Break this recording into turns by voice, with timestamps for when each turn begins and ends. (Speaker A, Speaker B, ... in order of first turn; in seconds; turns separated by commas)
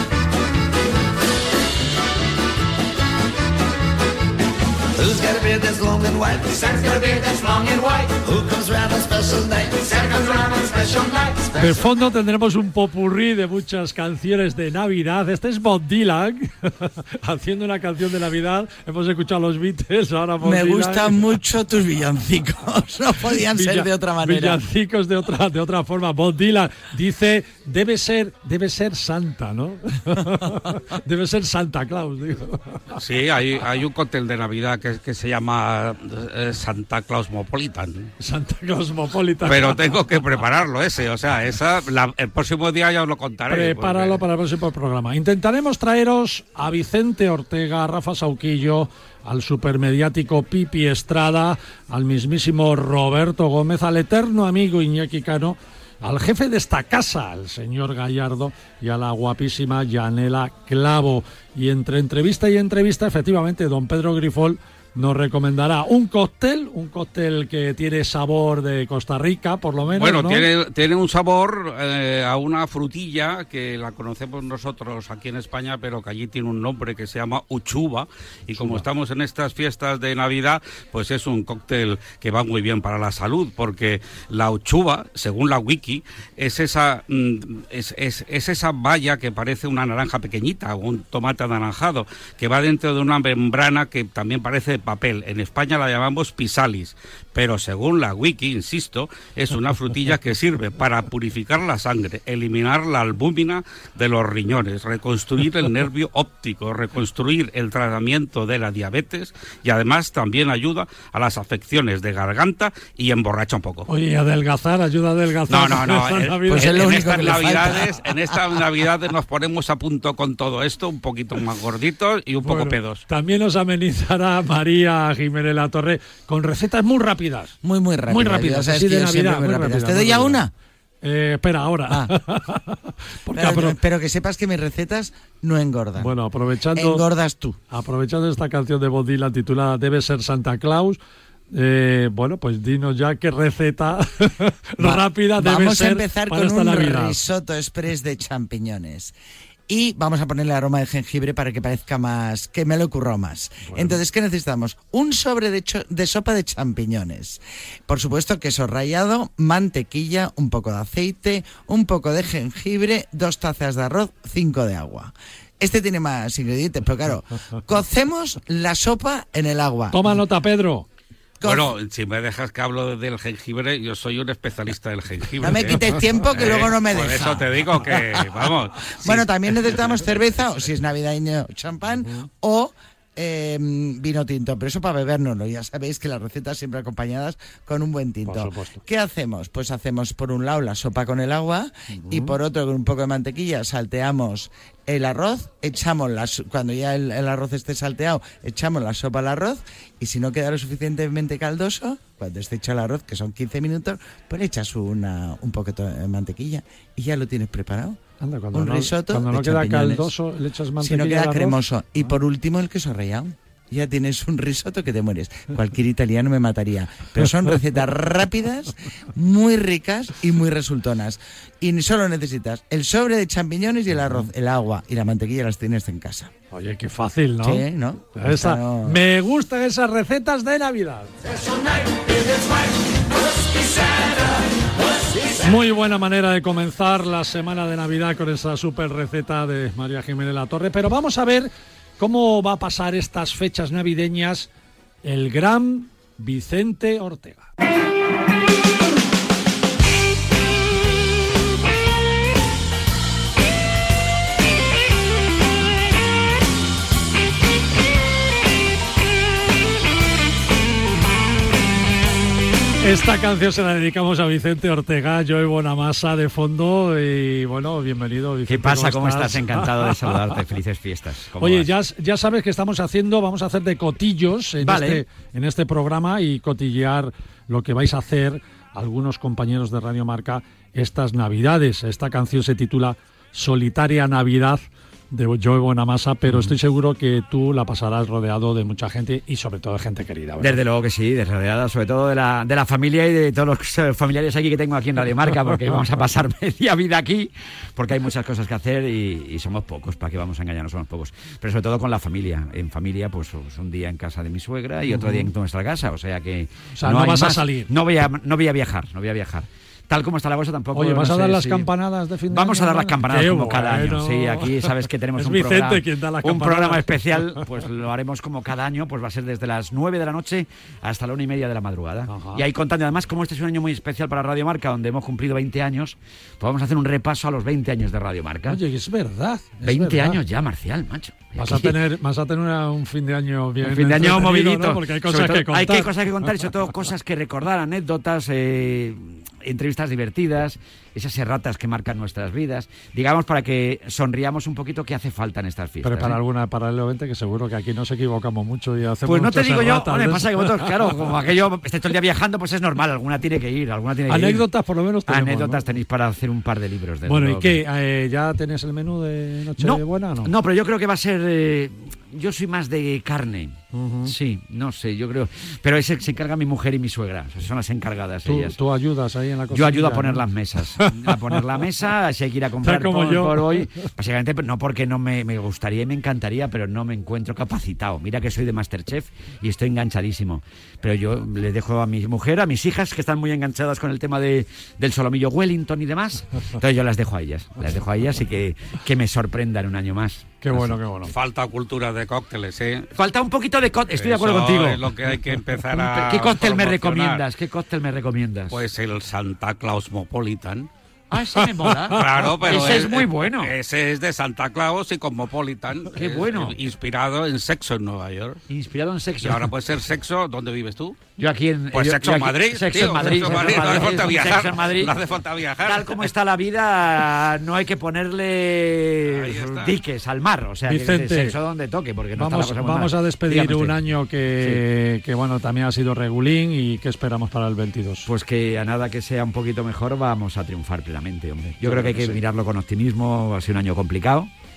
Speaker A: 5.3-6.8, Speaker A: 8.4-10.9, Speaker B: 11.6-21.2, Speaker C: 20.4-24.6, Speaker B: 23.2-33.0, Speaker D: 33.0-38.1, Speaker B: 38.2-40.0, Speaker D: 39.5-44.2, Speaker B: 43.5-70.5, Speaker D: 70.0-113.9, Speaker B: 78.5-78.8, Speaker B: 113.9-117.1, Speaker D: 115.5-123.0, Speaker C: 116.5-118.3, Speaker B: 122.4-127.5, Speaker C: 127.6-130.5, Speaker B: 128.1-130.4, Speaker B: 131.0-133.8, Speaker C: 131.9-132.1, Speaker C: 133.3-136.1, Speaker B: 136.0-137.0, Speaker C: 136.8-137.6, Speaker B: 137.7-141.0, Speaker B: 141.5-147.2, Speaker C: 144.8-149.1, Speaker C: 149.7-170.1, Speaker B: 153.7-154.0, Speaker B: 169.9-170.9, Speaker C: 171.4-171.7, Speaker D: 171.4-180.1, Speaker C: 175.4-178.2, Speaker C: 179.0-208.0, Speaker B: 188.2-188.8, Speaker B: 191.9-192.3, Speaker B: 208.2-211.6, Speaker C: 208.5-210.1, Speaker C: 210.8-226.3, Speaker B: 226.5-231.2, Speaker C: 227.4-229.0, Speaker B: 235.3-244.5, Speaker B: 245.0-247.5, Speaker B: 262.8-270.4, Speaker E: 268.5-271.7, Speaker B: 271.4-290.6, Speaker E: 274.6-275.0, Speaker E: 286.3-286.5, Speaker E: 290.4-311.7, Speaker B: 304.9-305.3, Speaker B: 306.8-307.7, Speaker B: 310.7-317.4, Speaker E: 312.3-328.6, Speaker B: 322.1-322.4, Speaker B: 328.5-330.2, Speaker E: 329.6-331.8, Speaker B: 331.4-335.9, Speaker E: 333.6-346.2, Speaker B: 345.8-351.0, Speaker E: 349.1-354.5, Speaker B: 354.1-355.6, Speaker E: 355.1-357.6, Speaker B: 357.1-360.3, Speaker E: 359.6-368.6, Speaker B: 363.7-364.1, Speaker B: 368.2-370.2, Speaker E: 369.5-390.7, Speaker B: 370.8-371.1, Speaker B: 372.6-373.6, Speaker B: 390.4-391.1, Speaker D: 391.1-392.9, Speaker E: 392.9-394.9, Speaker D: 393.9-397.2, Speaker E: 395.7-398.6, Speaker D: 398.5-400.7, Speaker E: 401.1-403.5, Speaker B: 401.4-402.8, Speaker D: 401.9-408.4, Speaker E: 405.9-406.6, Speaker E: 408.5-409.5, Speaker D: 409.2-411.0, Speaker E: 411.2-415.1, Speaker D: 411.7-416.1, Speaker B: 412.9-414.1, Speaker E: 415.6-423.8, Speaker D: 419.1-419.8, Speaker B: 420.7-421.4, Speaker B: 422.1-428.1, Speaker E: 428.1-434.3, Speaker B: 431.6-432.2